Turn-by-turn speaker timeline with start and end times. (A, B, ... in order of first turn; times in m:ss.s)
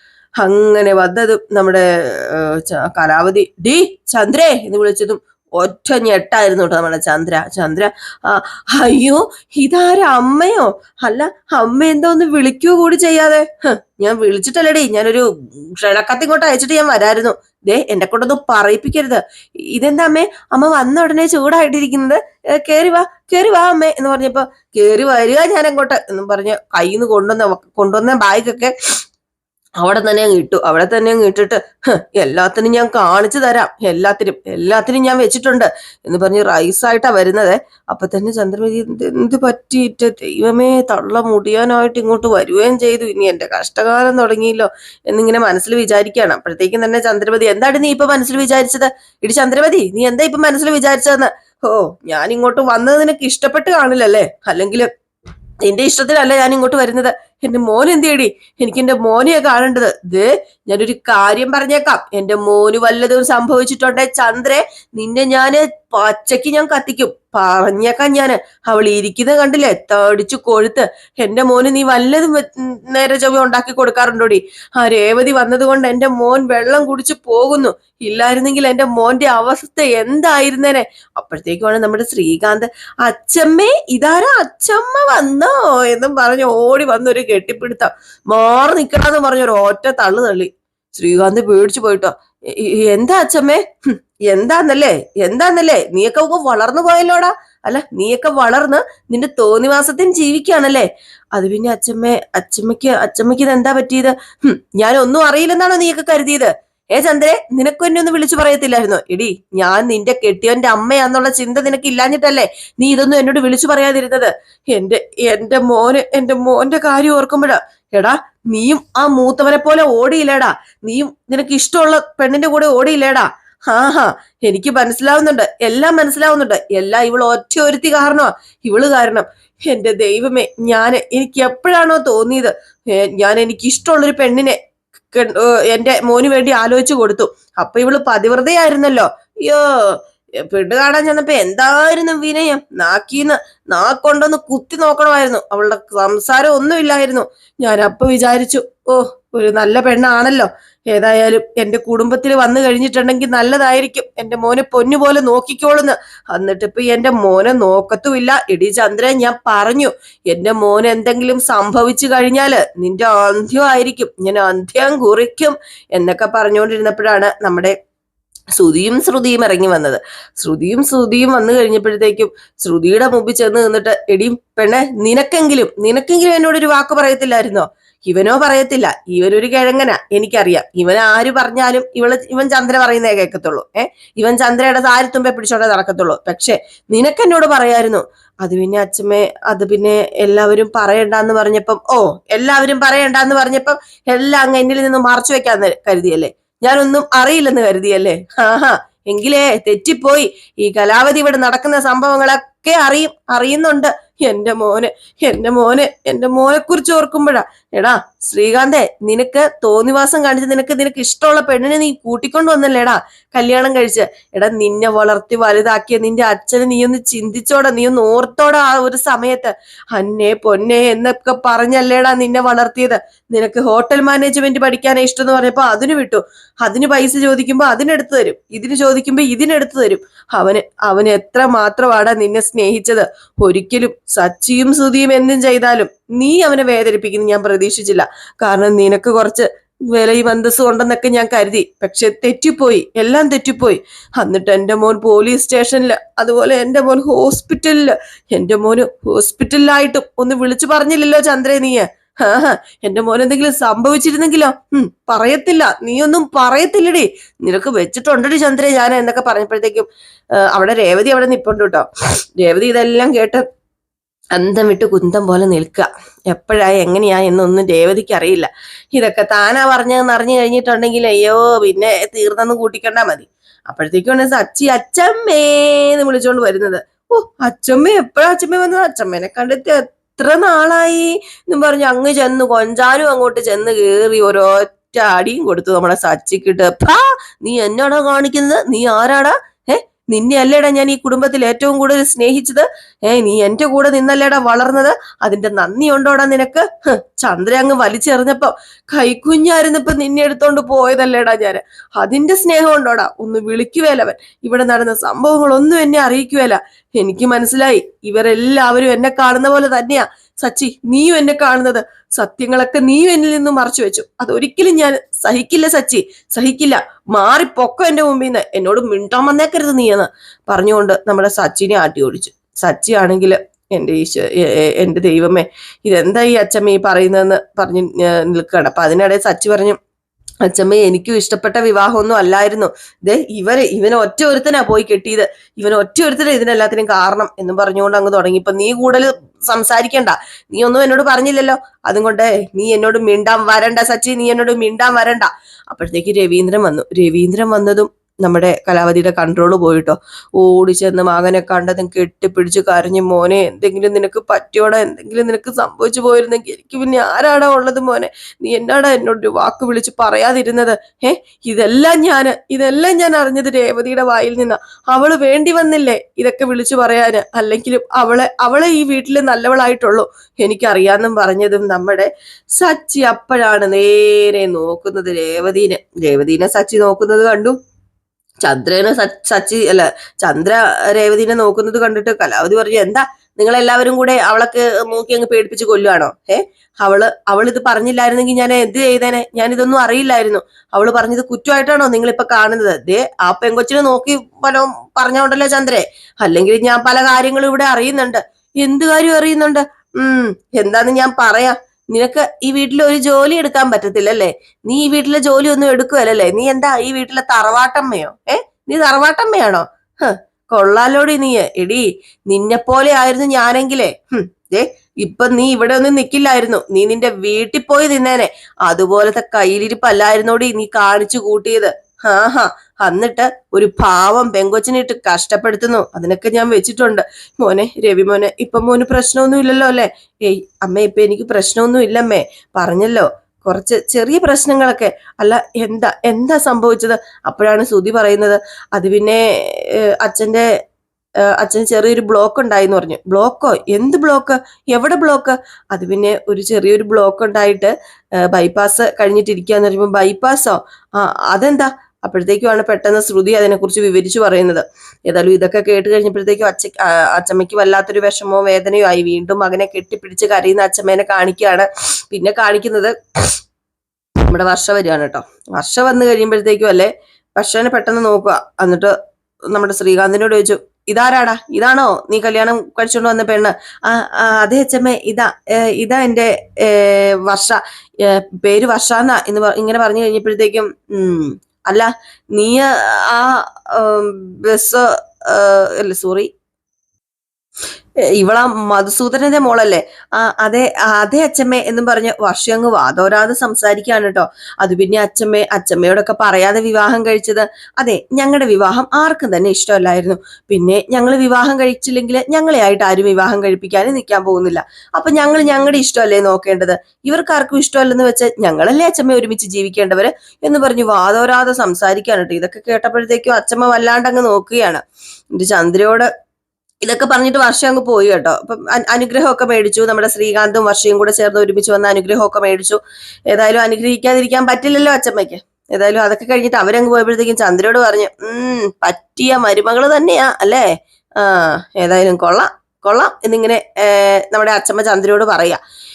0:00.4-0:28.7 A
0:29.8-0:54.9 A
0:55.6-2:14.6 A
2:15.1-2:47.7 A
2:48.6-4:19.9 A
4:20.4-4:21.9 A
4:22.4-4:23.4 A
4:24.3-5:29.8 A
5:30.4-6:17.6 A
6:18.4-7:20.5 A
7:21.3-7:43.3 A
7:44.3-7:48.9 A
7:49.5-8:06.3 A
8:08.2-8:36.1 A
8:36.8-8:50.6 A
8:51.2-8:55.6 A